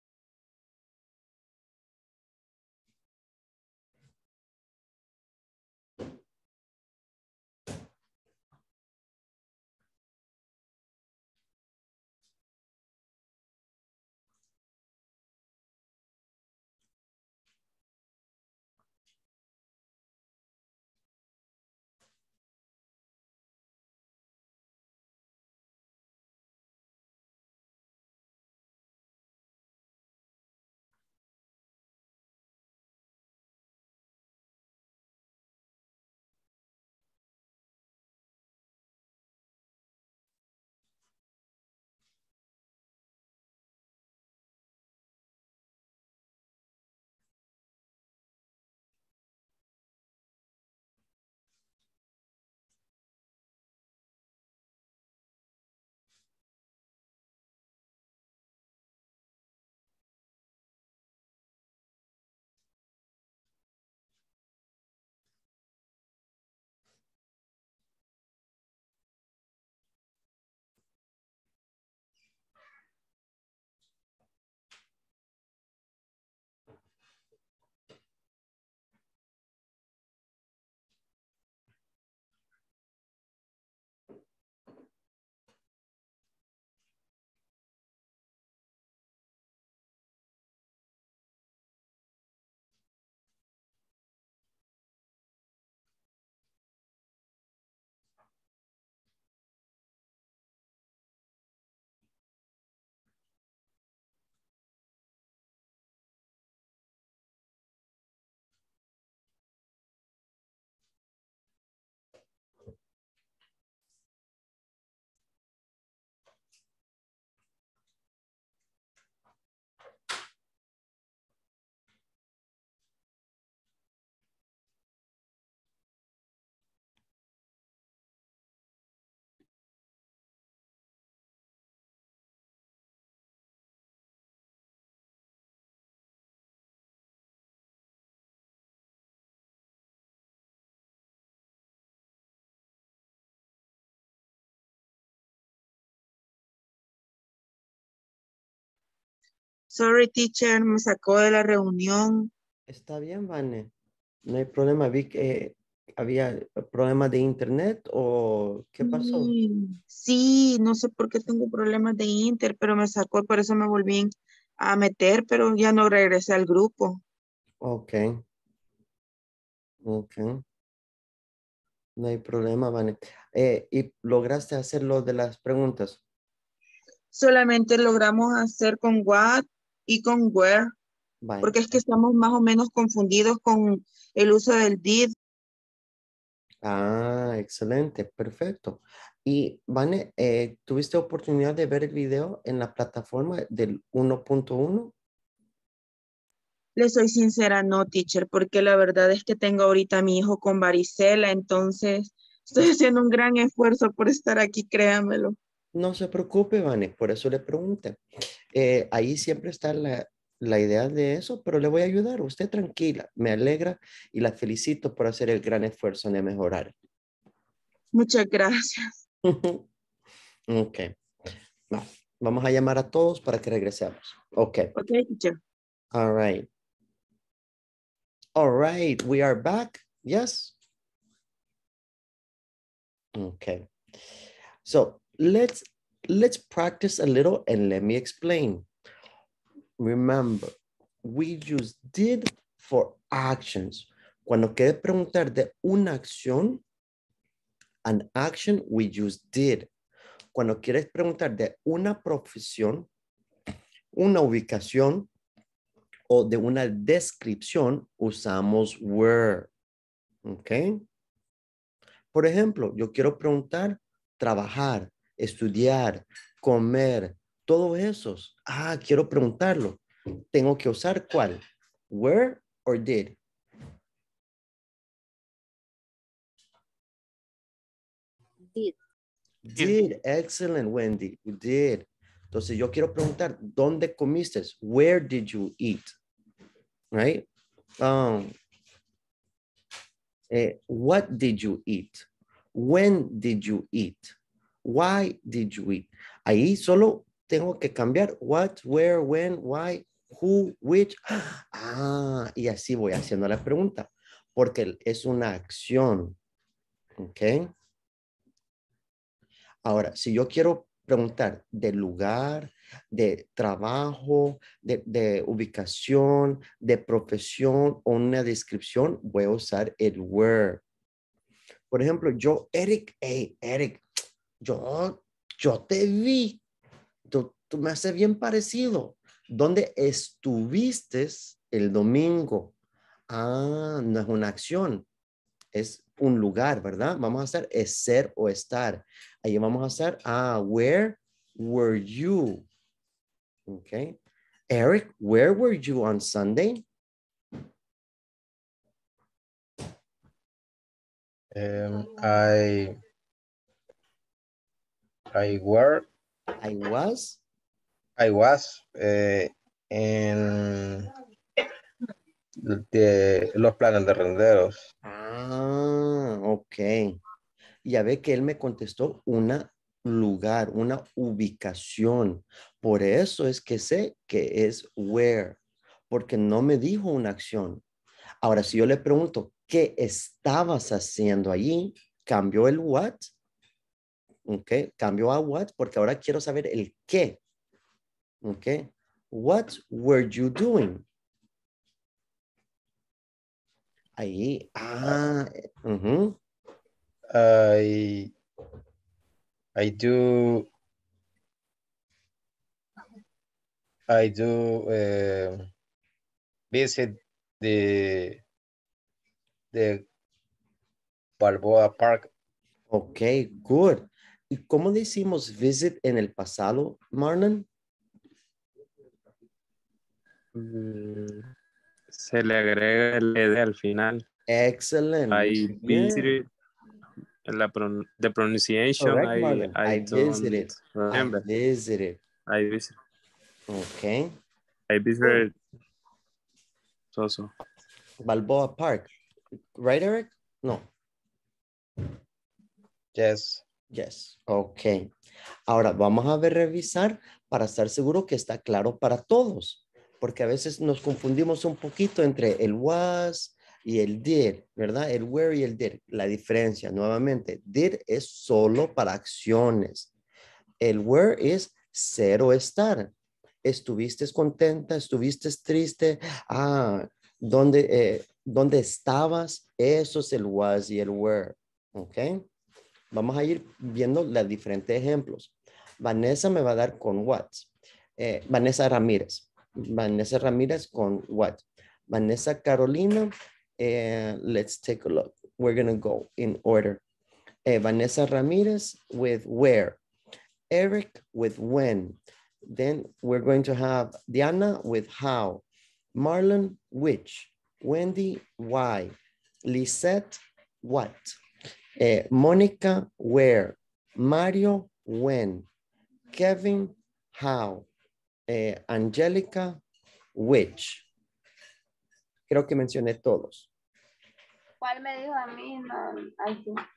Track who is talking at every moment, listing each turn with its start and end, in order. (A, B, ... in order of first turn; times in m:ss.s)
2:29.7-2:32.3 A
2:32.7-2:33.7 B
2:34.2-2:39.3 B
2:38.8-2:44.1 A
2:44.6-2:47.0 A
2:47.6-2:48.2 B
2:49.8-2:50.4 B
2:52.0-2:56.0 B
2:57.1-3:00.7 A
3:01.2-3:01.8 B
3:01.4-3:05.1 A
3:06.6-3:14.9 B
3:16.8-3:25.4 A
3:25.7-3:28.0 B
3:28.5-3:36.7 B
3:37.9-3:38.9 A
3:39.2-3:39.6 B
3:40.5-3:40.9 B
3:41.7-3:44.7 B
3:44.8-3:45.4 A
3:45.9-3:46.5 B
3:48.3-3:50.5 B
3:53.1-3:53.7 B
3:54.6-3:58.6 B
3:59.8-4:06.6 B
4:07.8-4:09.7 B
4:10.3-4:12.9 B
4:13.9-4:15.1 B
4:16.1-4:19.5 B
4:20.2-4:20.8 B
4:22.1-4:29.8 B
4:30.3-4:33.2 B
4:39.4-4:45.9 B
4:46.9-4:47.3 B
4:47.8-4:48.3 B
4:50.3-5:06.2 B
5:07.0-5:07.5 B
5:09.6-5:20.6 B
5:21.7-5:23.8 B
5:24.4-5:26.4 B
5:27.1-5:32.5 B
5:33.1-5:34.8 B
5:35.5-5:42.4 B
5:43.5-5:44.0 B
5:44.5-5:46.6 B
5:51.3-5:52.8 C
5:55.1-5:55.9 C
5:56.4-5:57.2 B
5:58.0-6:00.9 C
6:02.4-6:04.6 C
6:04.8-6:07.0 B
6:07.6-6:15.4 B
6:15.9-6:17.6 B
6:18.2-6:23.1 B
6:24.2-6:27.2 B
6:28.2-6:30.8 B
6:34.0-6:36.2 B
6:37.1-6:38.1 C
6:39.6-6:40.5 C
6:43.9-6:45.5 C
6:46.5-6:48.2 C
6:49.5-6:49.8 C
6:51.2-6:52.1 C
6:52.7-6:57.5 B
7:00.4-7:01.3 C
7:01.9-7:04.0 D
7:04.3-7:06.1 B
7:05.1-7:06.3 D
7:07.2-7:11.2 D
7:08.8-7:12.0 B
7:12.2-7:12.8 D
7:13.5-7:14.1 B
7:14.7-7:15.3 D
7:16.9-7:17.3 D
7:18.0-7:18.9 B
7:19.6-7:20.7 B
7:22.9-7:23.4 C
7:23.7-7:24.9 B
7:25.5-7:39.9 B
7:40.6-7:42.9 B
7:43.4-7:52.2 B
7:52.9-8:06.8 B
8:07.4-8:09.8 B
8:10.5-8:18.9 B
8:19.4-8:21.2 B
8:21.8-8:25.5 B
8:26.1-8:27.7 B
8:28.3-8:29.6 B
8:30.1-8:30.8 B
8:32.3-8:33.5 B
8:34.6-8:36.6 E